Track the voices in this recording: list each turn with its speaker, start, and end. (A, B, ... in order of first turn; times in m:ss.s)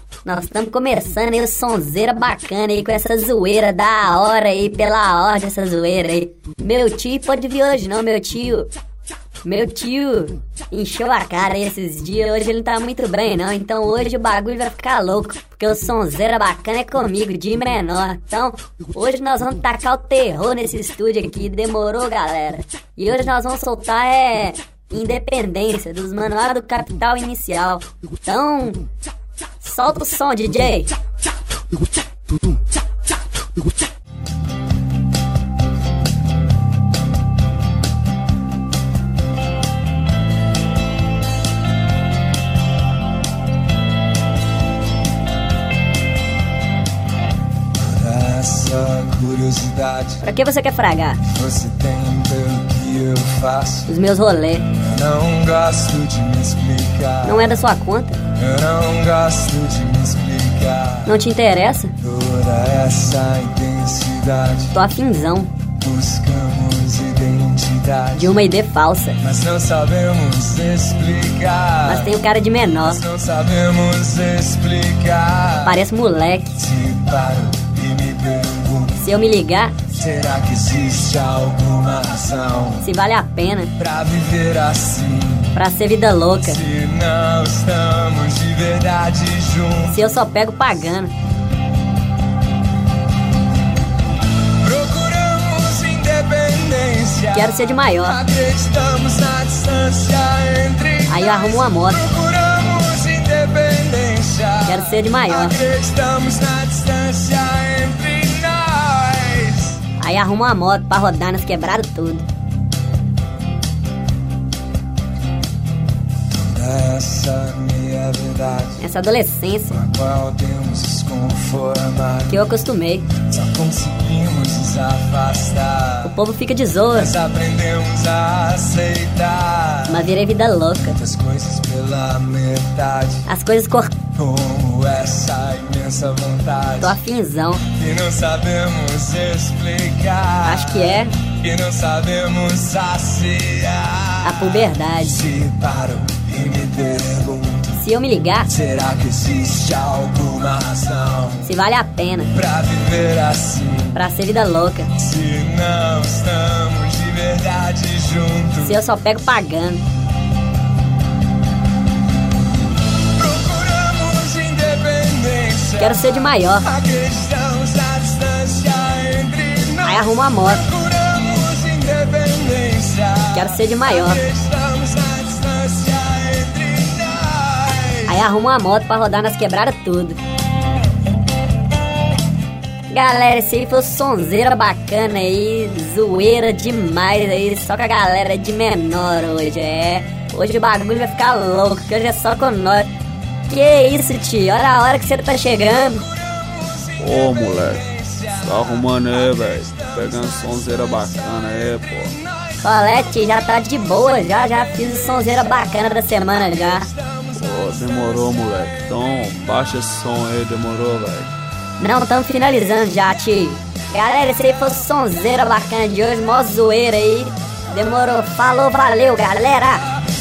0:00.2-0:08.7 A
0:09.4-0:28.8 A
0:29.6-0:30.9 A
0:47.7-0:50.2 B
0:50.2-0:51.2 A
0:51.2-0:53.9 B
0:53.9-0:54.7 A
0:54.7-0:57.6 B
0:57.2-0:58.2 A
0:58.3-1:01.1 B
1:01.0-1:01.9 A
1:02.0-1:04.7 B
1:04.7-1:05.5 A
1:05.8-1:08.4 B
1:08.1-1:09.2 A
1:09.2-1:12.1 B
1:11.8-1:13.0 A
1:12.8-1:15.8 B
1:15.6-1:16.6 A
1:16.6-1:19.1 B
1:19.0-1:19.8 A
1:19.9-1:22.9 B
1:22.8-1:23.7 A
1:23.8-1:25.6 B
1:25.5-1:26.6 A
1:26.4-1:30.0 B
1:29.9-1:31.1 A
1:34.6-1:49.8 B
1:37.3-1:38.2 A
1:41.1-1:42.0 A
1:44.6-1:45.6 A
1:50.0-1:52.3 A
1:56.3-1:58.8 B
1:58.8-1:59.8 A
1:59.7-2:02.5 B
2:02.3-2:03.1 A
2:03.2-2:06.2 B
2:06.0-2:07.1 A
2:06.9-2:10.1 B
2:09.9-2:11.0 A
2:10.8-2:13.2 B
2:13.3-2:14.0 A
2:14.1-2:16.9 B
2:16.8-2:17.6 A
2:17.7-2:27.8 B
2:20.4-2:21.1 A
2:24.2-2:25.2 A
2:27.8-2:28.5 A
2:28.5-2:31.5 B
2:31.4-2:32.3 A
2:32.3-2:34.0 B
2:33.9-2:34.9 A
2:35.0-2:38.8 B
2:38.6-2:39.8 A
2:43.0-2:58.2 B
2:45.8-2:46.7 A
2:49.8-2:50.7 A
2:53.3-2:54.2 A
2:58.0-3:00.2 A
3:02.9-3:12.9 A
3:13.5-3:16.1 A
3:16.3-3:20.7 B
3:17.0-3:22.2 C
3:22.6-3:26.9 A
3:26.9-3:28.3 B
3:27.4-3:31.3 C
3:31.8-3:39.8 A